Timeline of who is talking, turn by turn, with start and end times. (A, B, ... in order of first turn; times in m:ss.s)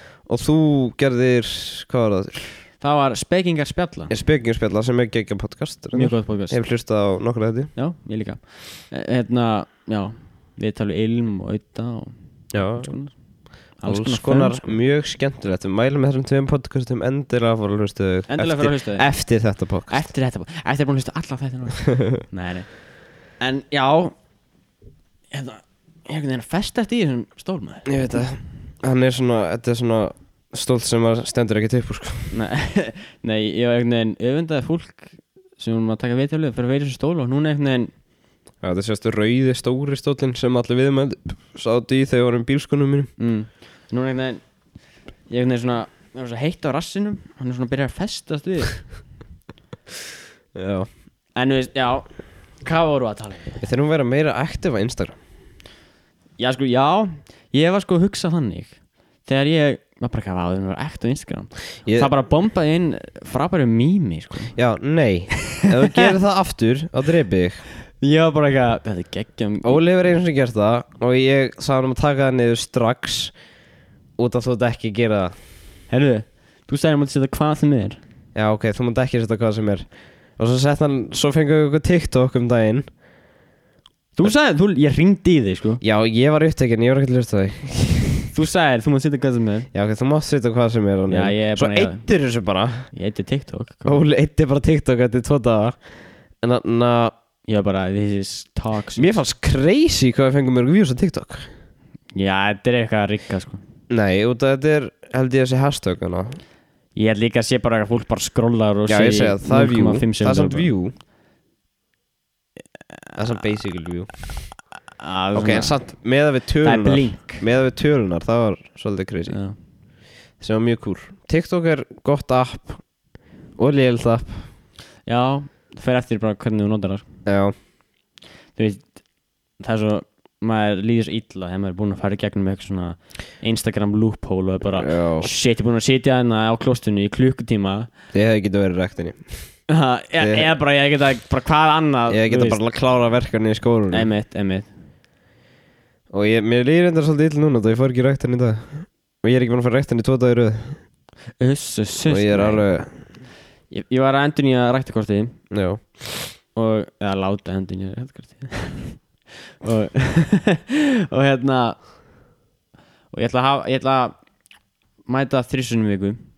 0:00.2-0:02.5 A
0:02.8-0:04.1 B
0:04.1-0:07.7 A
0:05.9-0:06.6 B
0:07.8-0:13.1 B
0:12.5-0:12.9 A
0:13.8-0:14.7 B
0:13.8-0:20.1 A
0:18.3-0:19.1 B
0:19.9-0:22.7 B
0:23.4-0:24.1 B
0:25.3-0:27.9 B
0:27.8-0:32.3 A
0:32.3-0:37.9 B
0:38.6-0:43.1 A
0:43.2-0:44.4 B
0:45.3-0:48.8 B
0:50.5-0:50.9 A
0:51.4-0:52.1 B
0:52.6-0:53.6 B
0:53.6-0:55.1 A
0:56.4-1:04.5 B
1:01.8-1:02.1 A
1:04.5-1:07.6 A
1:05.5-1:06.1 B
1:08.0-1:09.8 B
1:09.6-1:13.3 A
1:14.2-1:15.3 A
1:15.9-1:18.0 B
1:18.3-1:19.9 A
1:20.4-1:22.8 A
1:24.2-1:25.8 B
1:25.8-1:28.3 A
1:28.3-1:29.7 B
1:29.7-1:32.9 A
1:31.1-1:32.0 B
1:32.9-1:34.0 B
1:33.8-1:35.8 A
1:36.4-1:37.1 A
1:37.5-1:39.1 B
1:39.0-1:41.5 A
1:42.1-1:43.6 B
1:43.9-1:46.4 A
1:47.0-1:50.7 B
1:48.9-1:50.9 A
1:53.2-1:54.5 A
1:55.0-1:55.8 B
1:55.3-1:59.4 A
1:56.6-1:57.4 B
1:59.3-1:59.6 B
2:00.4-2:02.8 A
2:03.6-2:04.5 A
2:05.0-2:07.0 B
2:07.2-2:07.5 A
2:08.6-2:08.9 B
2:09.6-2:17.9 B
2:14.8-2:15.3 A
2:18.1-2:19.4 A
2:19.7-2:22.6 B
2:20.2-2:20.5 A
2:22.1-2:24.1 A
2:23.9-2:24.7 B
2:26.1-2:30.8 A
2:31.4-2:32.6 B
2:32.1-2:32.9 A
2:33.7-2:35.4 B
2:35.5-2:36.3 A
2:36.5-2:39.0 B
2:39.6-2:41.8 B
2:43.1-2:44.2 B
2:45.1-2:46.2 B